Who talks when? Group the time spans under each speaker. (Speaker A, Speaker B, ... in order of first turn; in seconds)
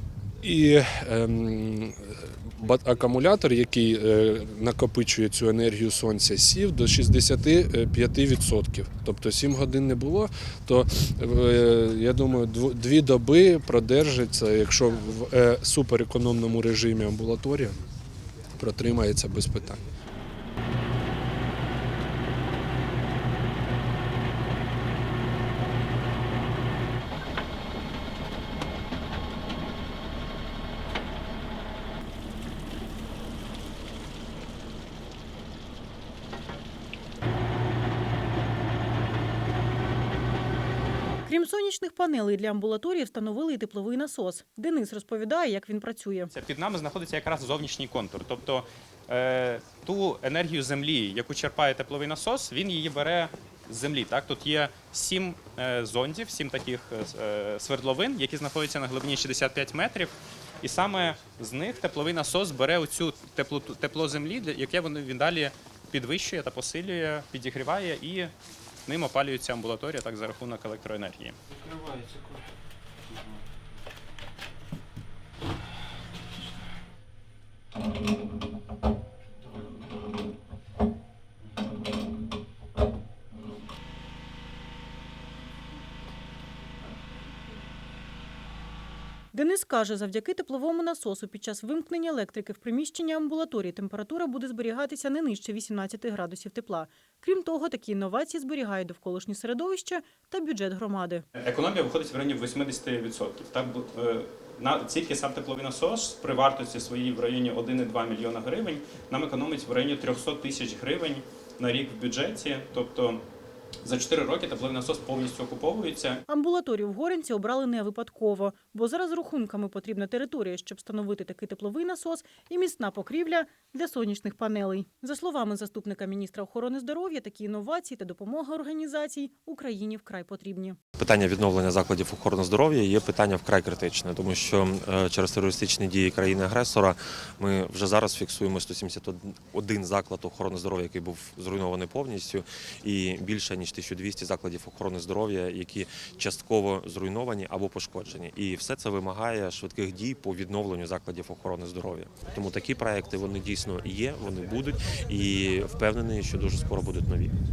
Speaker A: 0.4-17.8, 18.6-19.8
Speaker B: 41.2-46.3, 89.3-101.2, 116.3-130.8
Speaker C: 46.3-68.3, 68.9-71.4, 101.3-113.2, 113.8-116.2
Speaker D: 131.0-157.3